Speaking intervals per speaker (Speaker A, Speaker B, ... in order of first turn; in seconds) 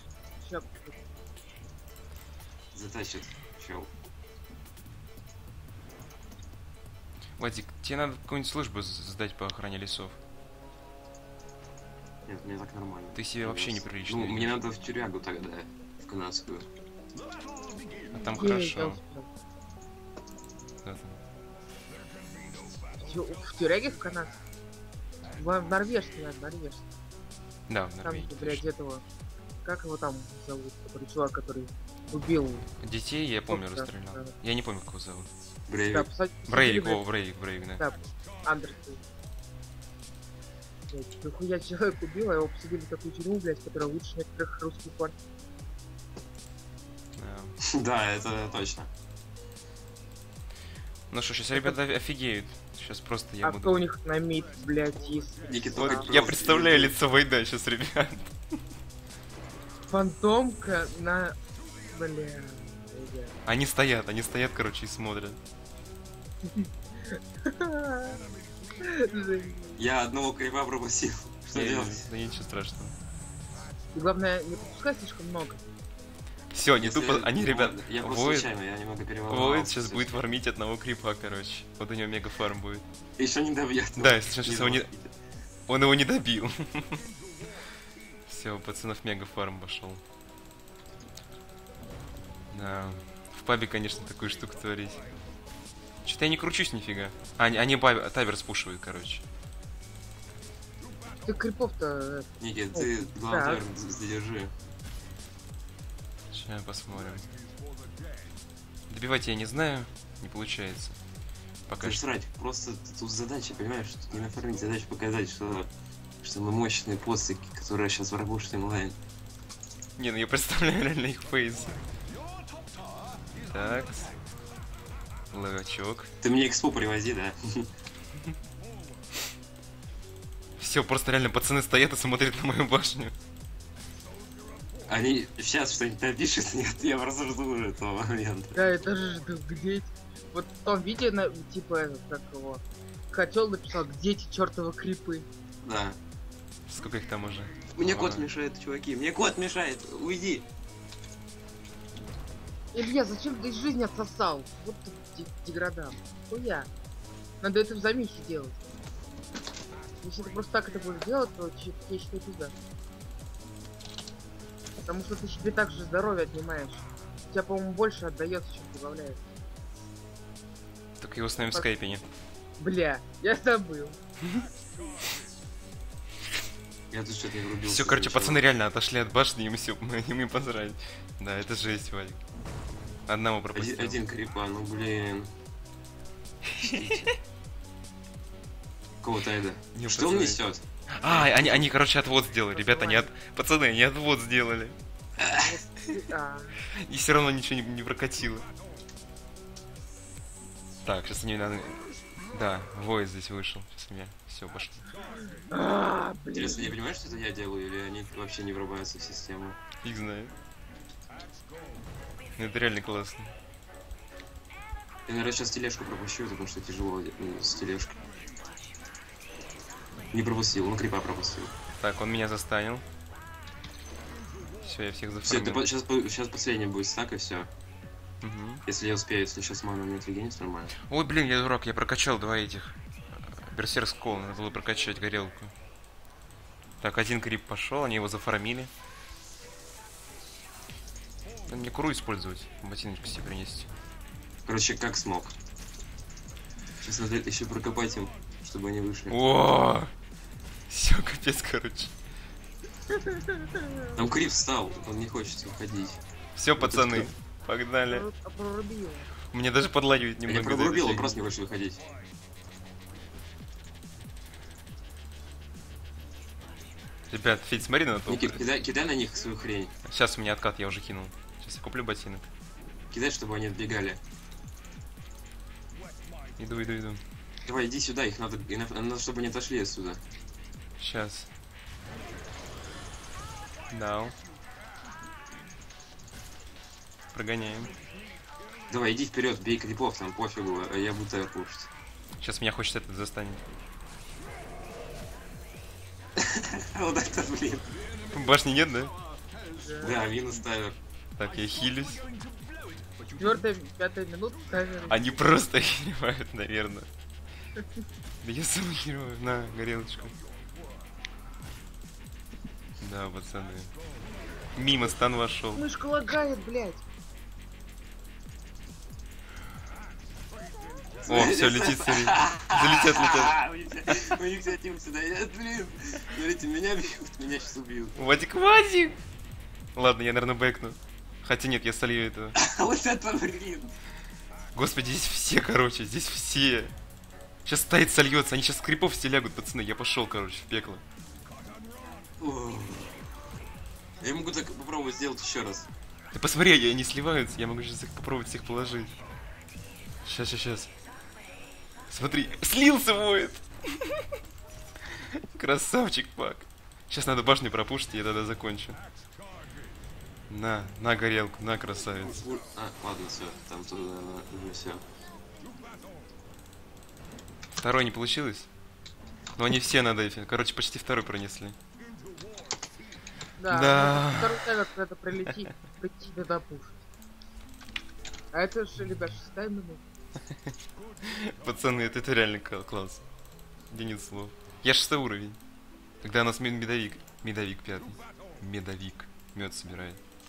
Speaker A: 0.4-0.9, 18.3-19.3, 23.0-24.4, 25.3-26.8, 28.0-29.0, 29.6-32.7, 33.5-34.3, 35.9-37.1, 37.8-39.0, 40.9-45.1, 53.4-56.1, 59.9-61.4, 61.9-63.4, 66.5-68.2, 68.8-69.8, 73.9-75.6, 101.2-103.6, 138.5-145.3, 152.7-156.7, 157.4-158.6, 160.0-162.5, 164.8-169.2, 172.6-174.0, 192.5-193.1, 195.3-196.6, 205.2-206.8, 253.1-253.7, 257.9-259.1, 299.6-300.0, 303.1-305.2, 315.5-316.8, 373.4-376.8, 378.3-379.8
Speaker B: 2.7-3.9, 12.2-16.7, 35.7-36.1, 47.6-48.9, 55.5-56.9, 69.8-72.0, 76.8-80.2, 83.2-85.1, 102.4-104.5, 111.8-115.7, 116.2-119.0, 126.2-127.7, 134.8-138.6, 145.6-146.0, 147.8-150.4, 176.9-178.4, 183.5-185.3, 186.7-187.1, 189.0-191.6, 195.2-195.5, 206.3-209.6, 215.1-218.0, 220.1-221.5, 225.2-227.5, 228.7-230.7, 244.4-245.3, 246.8-249.2, 253.9-256.0, 256.6-257.1, 260.2-261.8, 268.1-269.7, 272.9-274.0, 277.4-280.0, 288.7-291.7, 296.2-297.7, 299.8-300.8, 321.1-328.0, 332.4-333.7, 342.2-343.0, 344.0-345.7, 362.1-364.8
Speaker C: 7.4-10.2, 13.1-14.6, 18.1-19.0, 20.8-21.2, 27.7-28.6, 32.8-35.3, 36.5-37.8, 47.1-47.5, 51.1-53.8, 55.7-58.3, 63.4-65.4, 71.5-72.9, 76.5-78.5, 79.3-82.8, 84.0-84.9, 85.7-87.0, 88.3-90.0, 92.5-95.0, 96.0-99.2, 106.3-107.3, 108.9-111.0, 111.7-112.0, 120.0-121.8, 123.5-124.1, 125.3-126.1, 130.6-133.1, 146.7-148.3, 171.0-172.0, 177.6-182.2, 183.1-184.0, 186.6-187.1, 189.7-194.8, 196.7-198.4, 200.8-204.9, 209.8-210.3, 212.4-213.3, 221.8-222.8, 224.6-225.6, 228.2-228.6, 230.8-235.5, 236.8-238.7, 241.4-243.7, 249.1-249.9, 250.7-251.9, 256.4-258.1, 259.3-261.2, 267.1-268.4, 269.8-272.3, 276.4-277.0, 280.8-281.3, 283.7-284.1, 287.1-287.7, 292.2-293.4, 298.1-298.9, 301.1-302.0, 304.9-306.9, 308.2-310.1, 312.8-313.7, 314.5-315.6, 321.1-323.4, 327.9-329.0, 329.7-332.4, 334.5-336.7, 337.4-340.8, 346.1-348.9, 350.0-350.7, 351.9-354.0, 354.9-358.8, 360.3-362.2, 367.5-368.5, 369.4-371.6, 373.5-374.4, 381.0-383.0, 383.7-385.4, 386.0-390.0